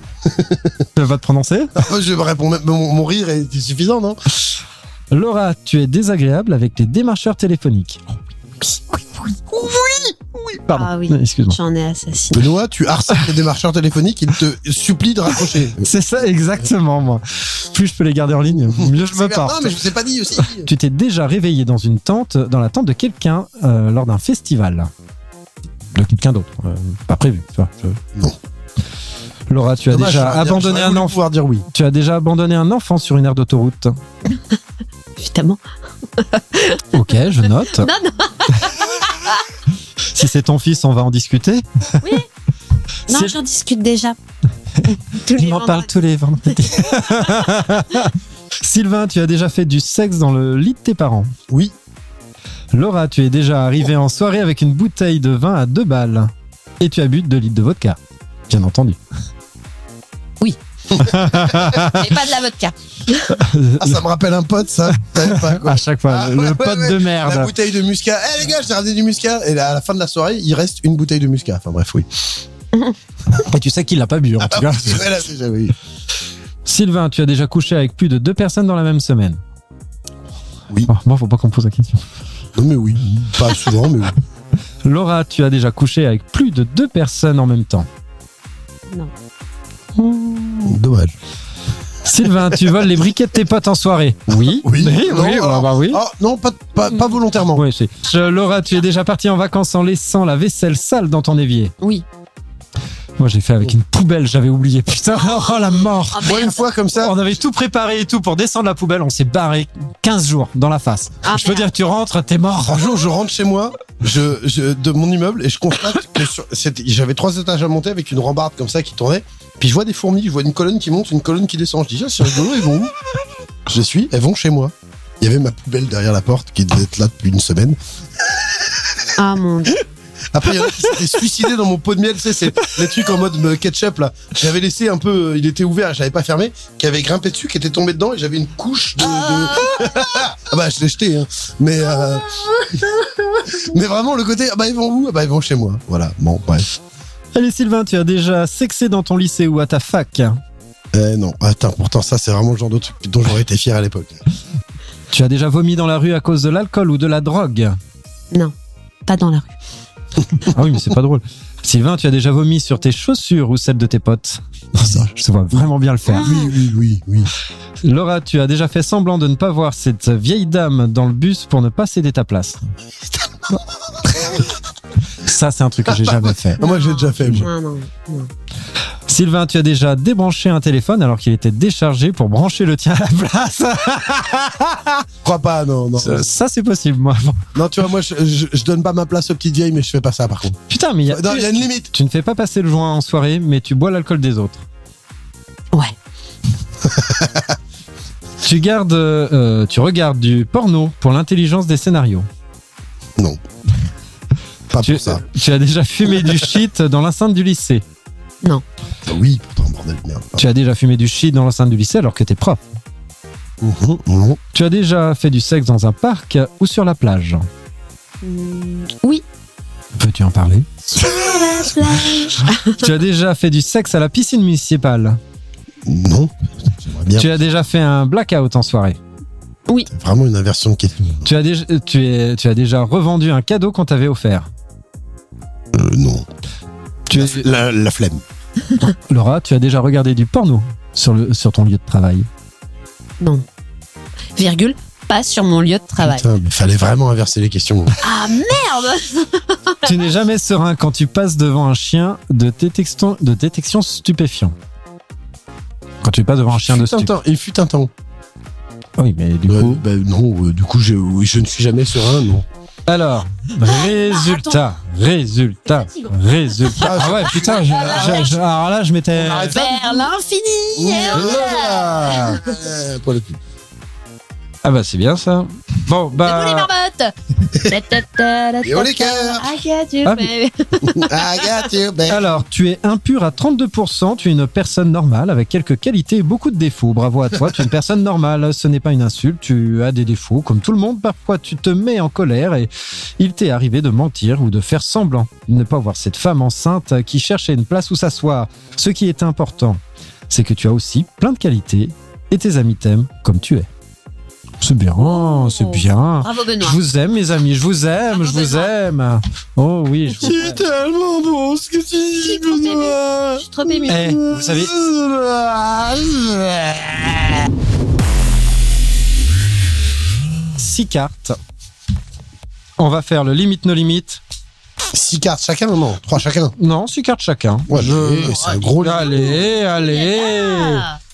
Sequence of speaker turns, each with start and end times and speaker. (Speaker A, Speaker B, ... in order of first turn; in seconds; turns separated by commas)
Speaker A: 0.2-0.8, Speaker B: 0.9-1.8, Speaker A: 1.8-4.2, Speaker B: 5.1-8.0, Speaker B: 8.7-11.6, Speaker C: 10.7-12.5, Speaker A: 12.3-15.9, Speaker B: 15.8-19.8, Speaker A: 18.6-20.7, Speaker B: 20.4-24.9, Speaker B: 25.9-27.8, Speaker A: 27.9-28.4, Speaker B: 29.5-34.0, Speaker A: 29.9-31.7, Speaker C: 35.2-35.6, Speaker C: 36.2-36.9, Speaker B: 36.9-37.9, Speaker C: 37.8-39.4, Speaker B: 40.1-42.1, Speaker C: 42.0-42.3, Speaker C: 43.1-44.2, Speaker B: 43.1-43.4, Speaker C: 44.9-45.9, Speaker B: 45.3-51.3, Speaker C: 46.5-47.3, Speaker A: 51.5-51.7, Speaker B: 52.7-59.0, Speaker B: 61.0-62.1, Speaker C: 61.8-63.3, Speaker B: 63.3-64.0, Speaker A: 63.8-72.3, Speaker B: 65.1-67.5, Speaker B: 73.4-75.1, Speaker A: 74.4-75.8, Speaker B: 76.7-79.4, Speaker B: 80.9-82.0, Speaker A: 82.5-84.2, Speaker B: 84.8-87.9, Speaker B: 90.0-90.7, Speaker A: 90.6-91.2, Speaker B: 92.0-96.0, Speaker A: 94.3-97.6, Speaker B: 97.6-101.7, Speaker B: 103.2-106.4, Speaker C: 105.2-106.6, Speaker A: 106.2-107.2, Speaker B: 107.0-113.0, Speaker C: 111.2-111.7, Speaker A: 112.7-122.9, Speaker A: 123.7-127.8, Speaker C: 129.2-129.9, Speaker A: 130.3-142.4, Speaker C: 139.0-140.0, Speaker A: 143.5-146.7, Speaker B: 147.3-150.4, Speaker A: 150.9-154.2, Speaker B: 155.1-157.8, Speaker C: 159.1-159.6, Speaker B: 160.4-166.3, Speaker A: 166.1-167.3, Speaker B: 167.8-172.7, Speaker B: 174.1-174.4, Speaker B: 175.2-176.6, Speaker A: 175.9-177.5, Speaker C: 176.6-178.3, Speaker B: 179.1-185.1, Speaker A: 185.2-186.4, Speaker B: 186.0-187.4, Speaker A: 187.6-191.9, Speaker B: 190.7-194.7, Speaker A: 196.9-197.6, Speaker B: 198.4-202.3, Speaker A: 204.7-205.2, Speaker B: 204.8-207.8, Speaker A: 209.1-210.4, Speaker B: 210.4-212.6, Speaker A: 213.6-214.4, Speaker B: 214.5-217.5, Speaker C: 218.2-219.2, Speaker B: 220.0-221.1, Speaker C: 220.9-222.9, Speaker B: 222.7-225.2, Speaker A: 225.8-227.3, Speaker B: 227.1-229.0, Speaker A: 229.9-231.2, Speaker B: 231.2-234.5, Speaker A: 235.7-236.3, Speaker B: 237.1-237.5, Speaker A: 237.1-238.2, Speaker B: 239.1-242.3, Speaker C: 244.4-246.3, Speaker A: 246.0-248.0, Speaker C: 248.0-249.9, Speaker B: 249.8-254.6, Speaker B: 256.0-257.1, Speaker A: 256.5-257.9, Speaker B: 259.0-259.8, Speaker A: 259.5-262.4, Speaker B: 262.9-269.6, Speaker C: 263.6-264.6, Speaker C: 265.7-268.4, Speaker A: 266.8-268.4, Speaker A: 269.1-270.0, Speaker C: 269.4-272.6, Speaker A: 270.8-273.4, Speaker B: 271.1-272.4, Speaker B: 274.6-276.7, Speaker C: 276.2-281.5, Speaker A: 278.6-279.4, Speaker B: 280.1-280.3, Speaker A: 280.9-282.3, Speaker B: 282.1-303.7, Speaker B: 304.6-310.7, Speaker C: 305.0-306.8, Speaker C: 308.1-308.7, Speaker A: 310.2-313.0, Speaker C: 312.2-314.2, Speaker B: 313.2-314.8, Speaker A: 314.0-317.4, Speaker B: 320.6-321.4, Speaker B: 322.8-324.2, Speaker A: 324.9-326.6, Speaker B: 326.6-330.9, Speaker A: 327.7-329.4, Speaker C: 329.2-331.0